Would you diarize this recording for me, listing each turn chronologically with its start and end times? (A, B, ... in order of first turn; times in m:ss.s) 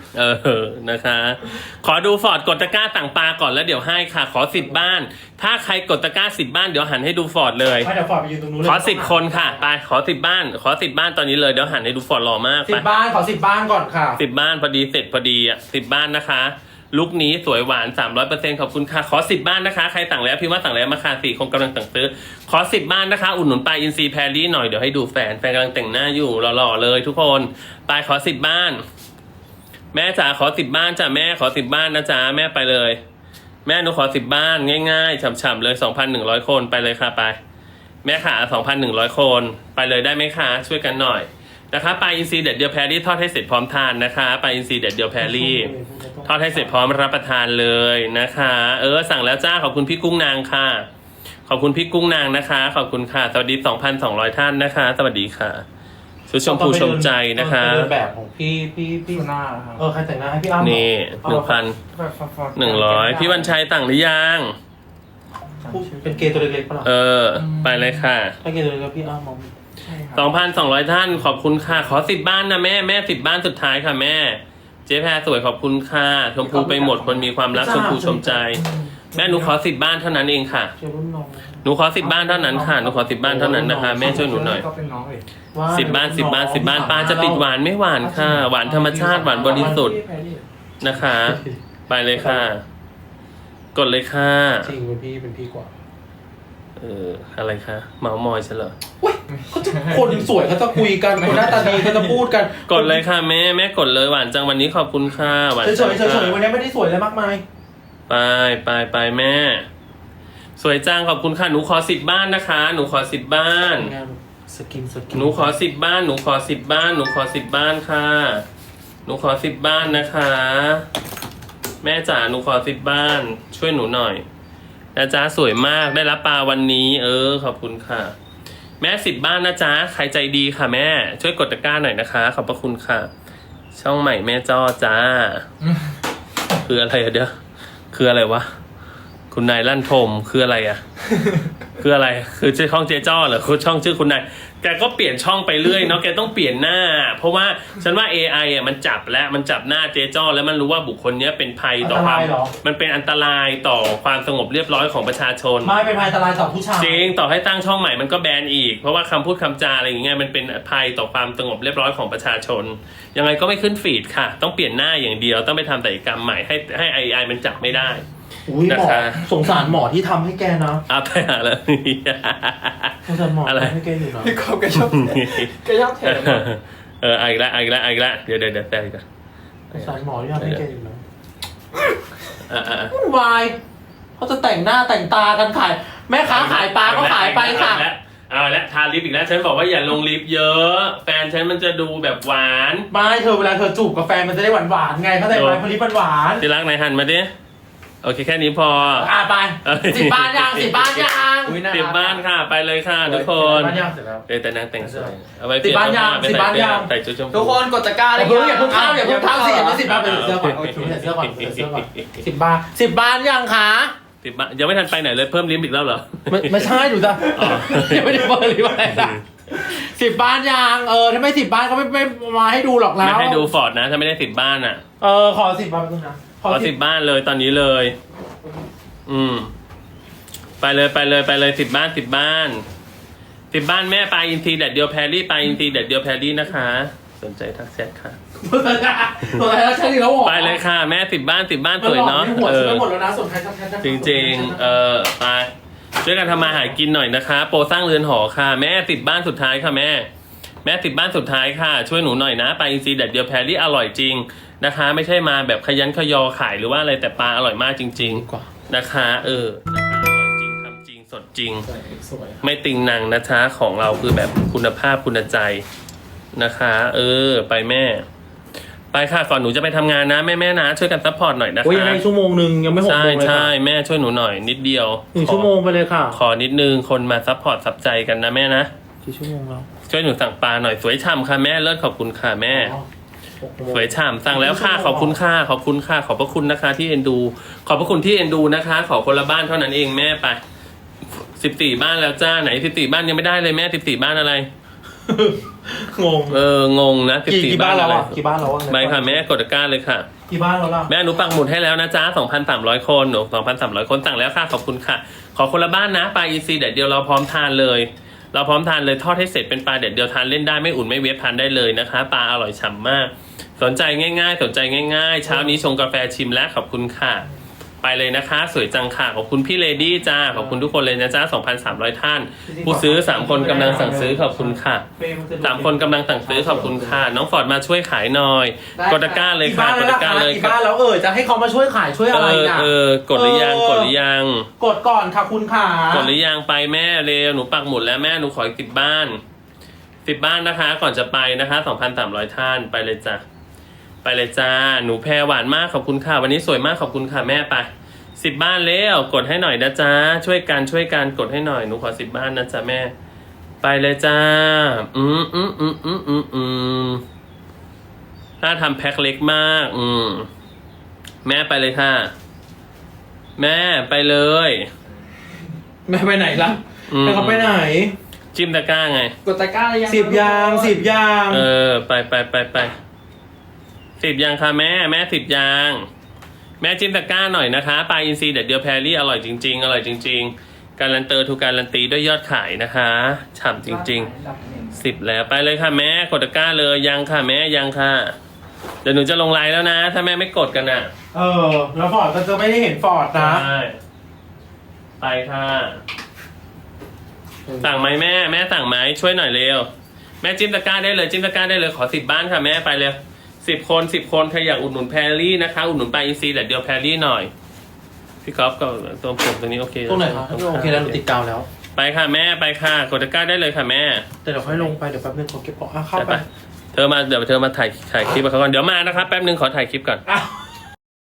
0:00.1-0:07.9 A
0:07.8-0:09.6 B
0:08.6-0:12.8 A
0:12.7-0:14.2 B
0:14.2-0:28.8 A
0:29.9-0:33.0 A
0:33.6-0:37.4 A
0:38.0-0:45.7 A
0:45.2-0:47.0 B
0:46.2-0:50.8 A
0:51.5-0:55.6 A
0:56.3-0:57.9 A
0:56.4-1:01.6 B
0:59.1-0:59.8 C
1:00.6-1:01.8 A
1:01.9-1:03.5 C
1:02.5-1:04.5 A
1:05.6-1:06.4 C
1:05.7-1:06.9 B
1:06.8-1:08.4 A
1:07.4-1:08.0 C
1:08.4-1:09.5 B
1:09.8-1:10.6 C
1:10.1-1:20.7 A
1:16.4-1:17.3 C
1:17.5-1:19.5 B
1:20.8-1:24.3 B
1:21.6-1:24.6 A
1:24.0-1:25.2 C
1:25.5-1:27.4 B
1:25.7-1:30.0 A
1:28.0-1:30.0 B
1:29.0-1:30.4 C
1:30.8-1:32.6 A
1:31.1-1:31.5 B
1:32.2-1:32.4 B
1:33.7-1:34.7 A
1:34.6-1:35.7 B
1:36.8-1:38.7 A
1:39.0-1:43.0 B
1:39.6-1:40.1 C
1:41.2-1:42.1 C
1:42.6-1:46.4 A
1:45.6-1:47.4 B
1:48.1-1:49.6 A
1:50.6-1:53.9 A
1:53.7-1:55.6 B
1:55.1-1:58.4 A
1:59.0-2:00.8 A
2:01.8-2:04.2 A
2:04.9-2:08.1 A
2:08.8-2:13.1 A
2:13.7-2:15.4 A
2:16.6-2:17.3 A
2:17.9-2:18.5 A
2:19.3-2:20.8 A
2:21.8-2:35.7 A
2:31.8-2:32.5 B
2:35.6-2:37.1 B
2:36.8-2:48.0 A
2:48.4-2:50.8 B
2:48.7-2:49.2 A
2:50.9-2:53.8 A
2:53.0-2:54.4 B
2:54.2-2:56.4 C
2:54.7-2:59.0 A
2:59.7-3:01.0 B
2:59.7-3:00.6 A
3:02.5-3:02.9 A
3:02.9-3:03.6 B
3:04.2-3:07.8 B
3:06.2-3:12.9 A
3:12.9-3:16.4 B
3:15.3-3:15.6 A
3:16.4-3:17.3 A
3:18.0-3:27.6 A
3:19.0-3:21.6 B
3:21.4-3:22.2 C
3:23.0-3:24.2 B
3:24.8-3:26.9 B
3:27.3-3:30.0 C
3:28.1-3:33.9 B
3:29.8-3:32.2 A
3:34.2-3:38.4 A
3:36.3-3:43.5 B
3:38.9-3:39.2 A
3:43.0-3:44.8 A
3:45.0-3:46.7 B
3:46.5-3:47.9 A
3:49.1-3:49.5 A
3:50.6-3:52.6 A
3:53.5-3:58.2 A
3:58.4-4:00.6 B
4:00.2-4:02.9 A
4:01.8-4:04.7 B
4:03.8-4:10.1 A
4:06.3-4:06.8 B
4:10.6-4:21.7 A
4:18.0-4:18.5 B
4:21.8-4:22.2 C
4:21.8-4:22.3 B
4:22.4-4:25.6 A
4:26.3-4:28.0 A
4:28.9-4:32.0 A
4:31.6-4:33.5 B
4:32.8-4:35.5 A
4:35.1-4:36.2 B
4:36.1-4:38.7 A
4:39.0-4:39.7 B
4:39.9-4:42.7 A
4:42.5-4:42.8 B
4:43.4-4:45.2 B
4:43.7-4:50.4 A
4:51.3-4:54.5 A
4:55.1-4:56.4 B
4:56.3-5:00.1 A
4:57.3-4:59.3 B
5:00.3-5:00.9 B
5:00.9-5:17.2 A
5:15.2-5:15.6 B
5:17.8-5:24.8 A
5:20.4-5:20.6 B
5:22.4-5:27.0 B
5:25.4-5:30.6 A
5:28.8-5:29.3 C
5:29.3-5:33.9 B
5:32.1-5:34.5 A
5:34.6-5:36.1 B
5:35.9-5:39.2 A
5:40.0-5:43.2 A
5:44.0-5:52.9 A
5:53.6-5:57.0 A
5:58.4-6:00.3 A
6:01.2-6:02.1 A
6:03.4-6:04.7 A
6:05.8-6:07.9 B
6:06.9-6:07.6 A
6:08.3-6:09.1 A
6:09.2-6:10.8 C
6:09.8-6:11.5 B
6:11.3-6:12.7 A
6:14.0-6:15.8 A
6:16.6-6:24.1 A
6:23.6-6:24.7 C
6:24.7-6:28.1 A
6:28.8-6:30.9 A
6:31.1-6:33.5 B
6:33.2-6:33.8 A
6:35.0-6:35.8 A
6:37.6-6:39.7 A
6:40.2-6:47.3 A
6:48.2-6:51.0 A
6:49.9-6:51.5 B
6:51.7-6:54.7 A
6:54.2-6:56.2 B
6:56.0-7:00.0 A
7:00.1-7:00.3 B